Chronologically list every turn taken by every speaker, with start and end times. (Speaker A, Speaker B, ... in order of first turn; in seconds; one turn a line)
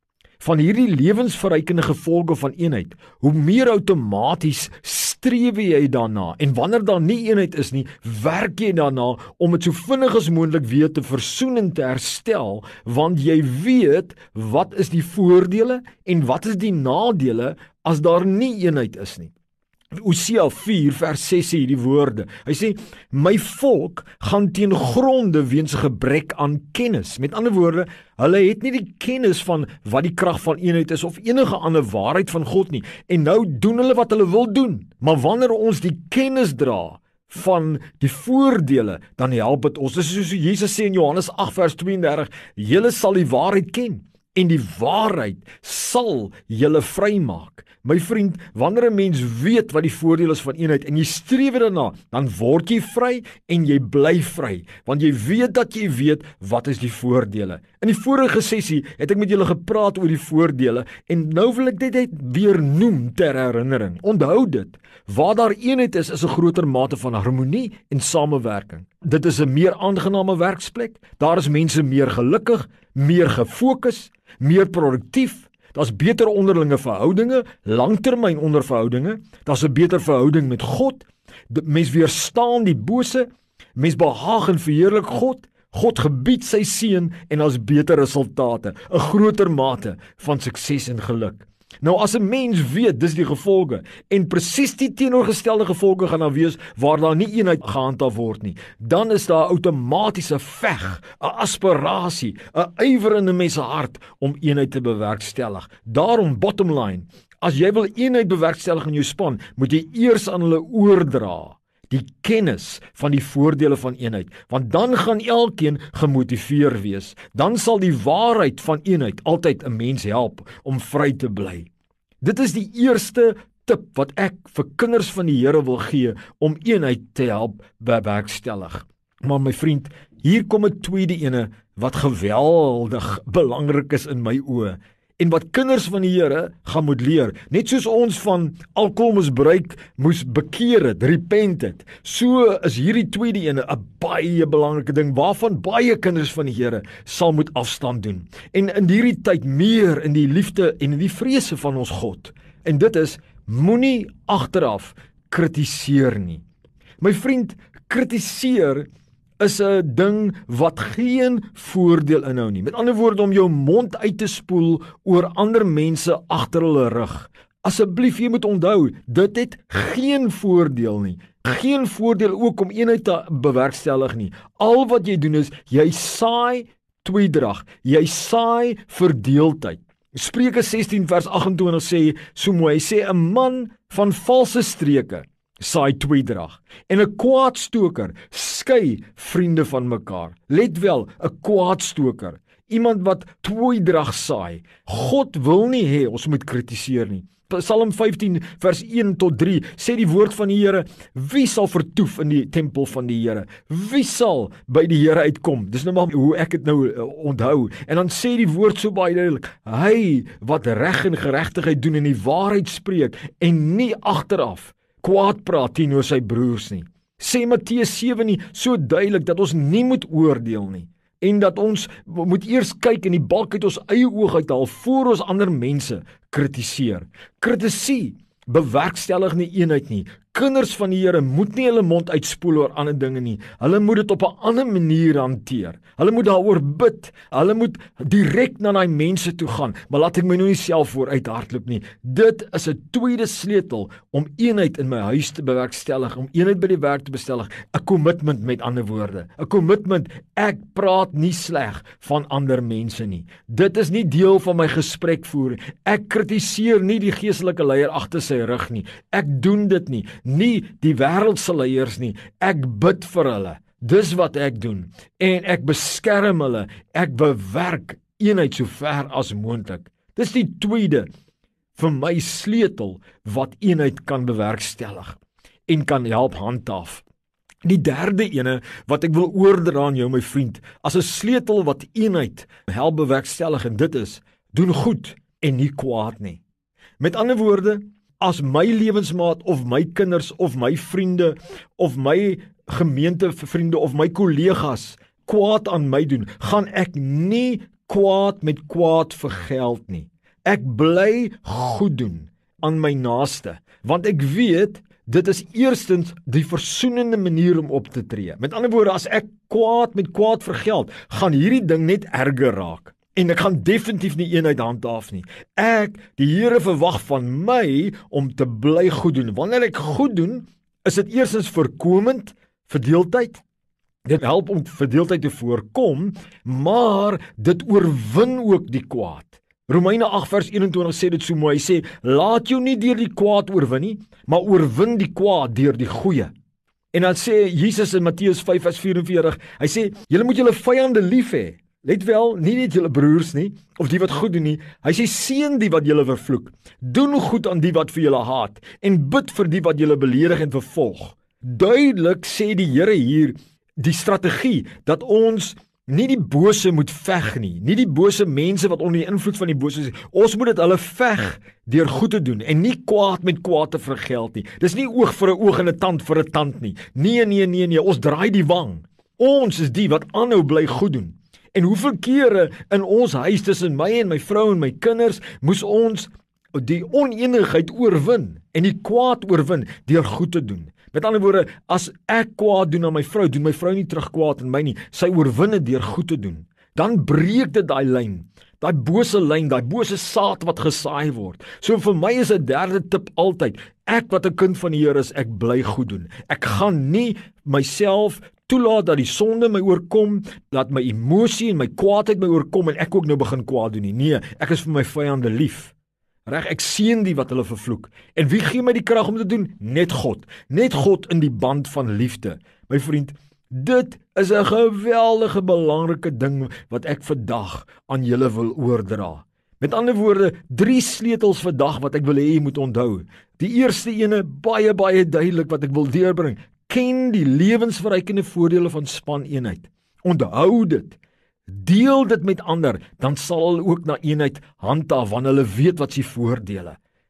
Speaker A: 0.4-19.3
Speaker A: 19.9-121.7
Speaker A: 122.2-156.4
Speaker A: 157.0-158.9
Speaker A: 159.4-271.1
Speaker A: 271.7-277.0
Speaker A: 277.6-286.4
Speaker A: 287.0-323.4
Speaker A: 324.1-336.3
Speaker A: 336.9-405.7
Speaker A: 406.2-436.8